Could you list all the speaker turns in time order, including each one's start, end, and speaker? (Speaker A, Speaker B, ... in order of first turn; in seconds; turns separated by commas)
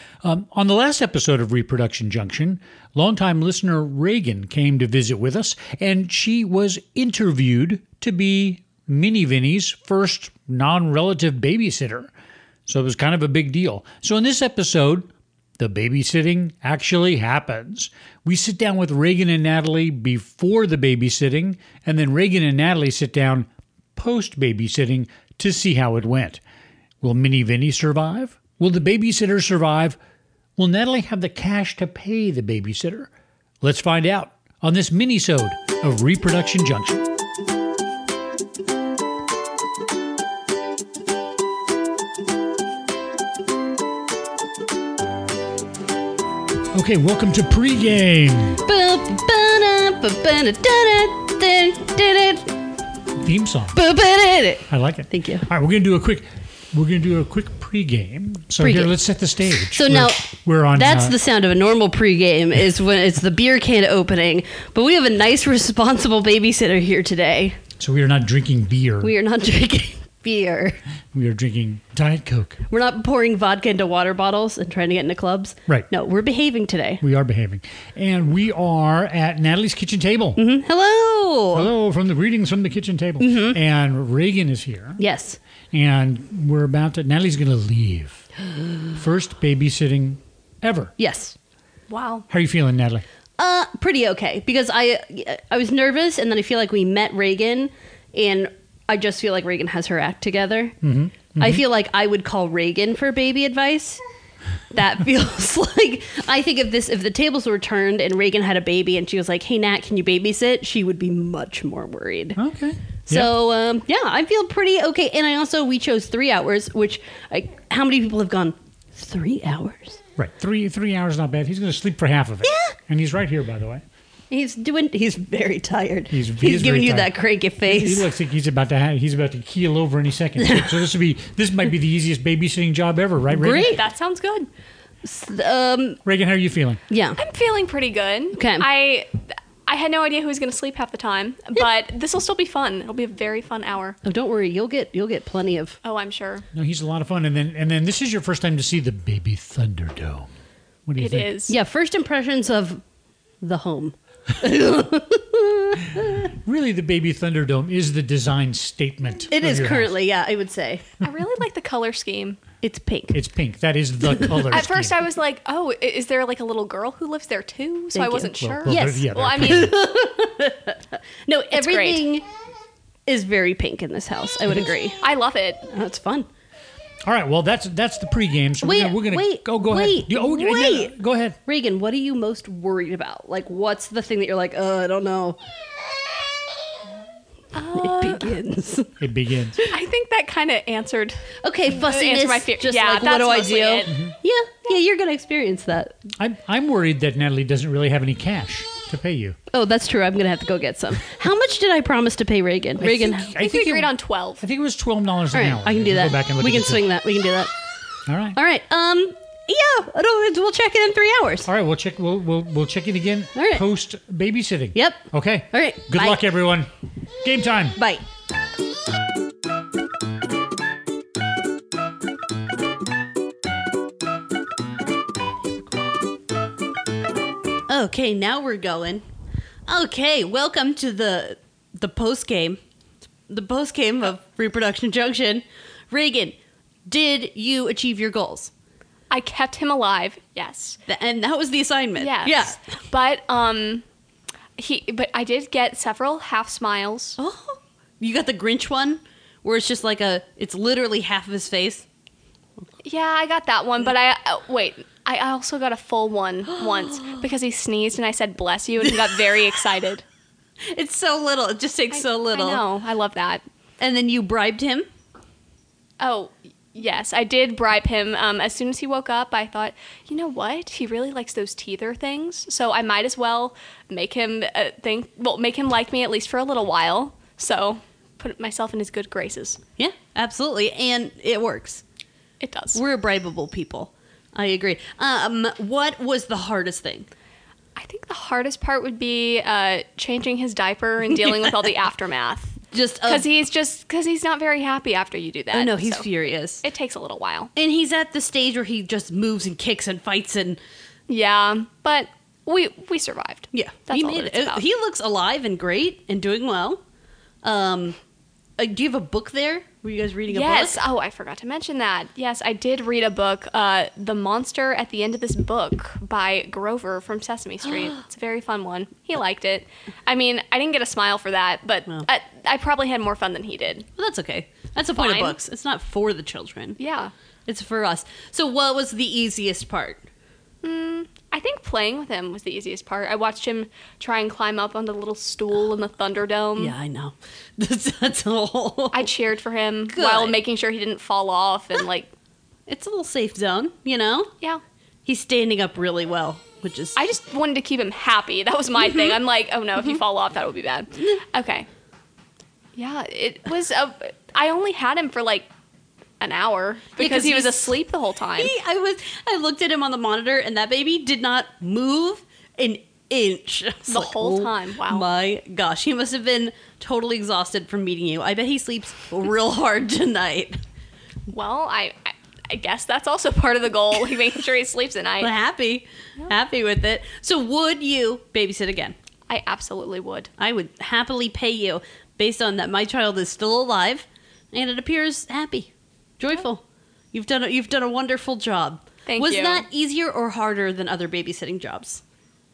Speaker A: 0.2-12.1, Speaker A: 12.7-26.4, Speaker A: 27.0-30.0, Speaker A: 30.6-33.1, Speaker A: 33.6-37.1, Speaker A: 46.7-48.6, Speaker B: 48.6-52.5, Speaker A: 53.2-53.8, Speaker B: 53.7-55.5, Speaker A: 54.7-61.1, Speaker B: 58.6-58.9, Speaker B: 59.7-67.6, Speaker A: 67.8-69.1, Speaker B: 69.0-70.8, Speaker A: 71.1-72.6, Speaker B: 72.7-77.0, Speaker A: 77.0-80.4, Speaker B: 80.4-81.7, Speaker A: 81.5-85.0, Speaker B: 83.2-83.6, Speaker B: 85.0-85.4, Speaker A: 85.7-88.3, Speaker A: 88.8-90.9, Speaker B: 91.0-91.3, Speaker C: 91.9-92.2, Speaker A: 92.3-93.0, Speaker B: 93.4-100.7, Speaker A: 100.8-101.6, Speaker B: 101.4-104.0, Speaker B: 104.7-112.4, Speaker A: 112.3-113.3, Speaker B: 113.1-120.0, Speaker A: 120.2-123.8, Speaker B: 122.4-122.7, Speaker B: 124.3-128.1, Speaker A: 126.1-133.7, Speaker B: 130.4-130.8, Speaker B: 133.3-133.8, Speaker C: 133.6-134.5, Speaker B: 135.0-136.0, Speaker A: 136.0-136.8, Speaker B: 136.9-137.2, Speaker C: 137.2-139.1, Speaker B: 138.3-138.7, Speaker C: 139.7-144.0, Speaker B: 144.0-145.8, Speaker C: 145.8-146.4, Speaker A: 146.5-150.3, Speaker A: 150.9-151.3, Speaker C: 151.0-151.5, Speaker B: 151.5-152.8, Speaker B: 153.4-156.1, Speaker A: 156.3-159.9, Speaker B: 159.3-160.9, Speaker C: 161.0-162.4, Speaker B: 162.6-163.2, Speaker A: 163.1-165.0, Speaker C: 164.5-169.7, Speaker B: 167.9-172.2, Speaker A: 168.4-169.7, Speaker C: 171.5-172.1, Speaker B: 173.1-175.0, Speaker C: 175.0-175.7, Speaker B: 175.7-176.3, Speaker A: 177.0-181.4, Speaker B: 178.6-185.4, Speaker C: 187.5-188.3, Speaker B: 187.7-189.0, Speaker A: 189.0-189.6, Speaker C: 189.7-193.9, Speaker B: 191.4-196.0, Speaker A: 193.9-194.1, Speaker A: 196.2-199.4, Speaker B: 199.5-203.4, Speaker A: 202.8-206.9, Speaker C: 203.3-204.4, Speaker B: 205.3-207.5, Speaker A: 208.1-208.4, Speaker B: 208.3-211.5, Speaker A: 211.4-216.7, Speaker B: 213.3-213.6, Speaker B: 214.7-216.2, Speaker A: 217.2-217.8, Speaker B: 217.8-218.0, Speaker B: 227.7-229.0, Speaker B: 229.7-232.6, Speaker B: 233.3-238.5, Speaker C: 239.1-240.8, Speaker B: 240.9-242.6, Speaker C: 242.0-243.8, Speaker C: 244.6-247.2, Speaker B: 247.2-251.9, Speaker C: 252.8-260.0, Speaker B: 256.6-257.2, Speaker B: 258.8-259.6, Speaker B: 260.7-262.6, Speaker C: 261.9-263.4, Speaker B: 263.8-264.9, Speaker C: 266.0-279.6, Speaker B: 279.8-281.8, Speaker C: 282.4-282.8, Speaker B: 282.7-287.1, Speaker C: 287.8-296.1, Speaker B: 292.7-293.2, Speaker B: 295.5-296.6, Speaker C: 296.6-297.5, Speaker B: 297.6-300.6, Speaker C: 301.1-304.6, Speaker B: 303.5-306.8, Speaker B: 307.4-308.0, Speaker B: 308.6-310.8, Speaker C: 310.3-323.9, Speaker B: 324.0-326.8, Speaker C: 324.9-325.4, Speaker C: 326.8-327.1, Speaker B: 327.5-330.1, Speaker C: 330.6-336.7, Speaker B: 336.6-339.1, Speaker C: 338.9-342.1, Speaker B: 339.9-340.4, Speaker B: 342.7-344.3, Speaker B: 345.1-347.0, Speaker C: 346.9-351.7, Speaker B: 348.8-349.1, Speaker C: 352.8-355.5, Speaker C: 356.2-358.5, Speaker B: 357.0-357.8, Speaker B: 358.4-370.6, Speaker C: 363.9-365.1, Speaker C: 371.3-375.3, Speaker B: 375.2-378.9, Speaker C: 379.3-380.3, Speaker B: 380.4-392.0, Speaker C: 389.1-389.6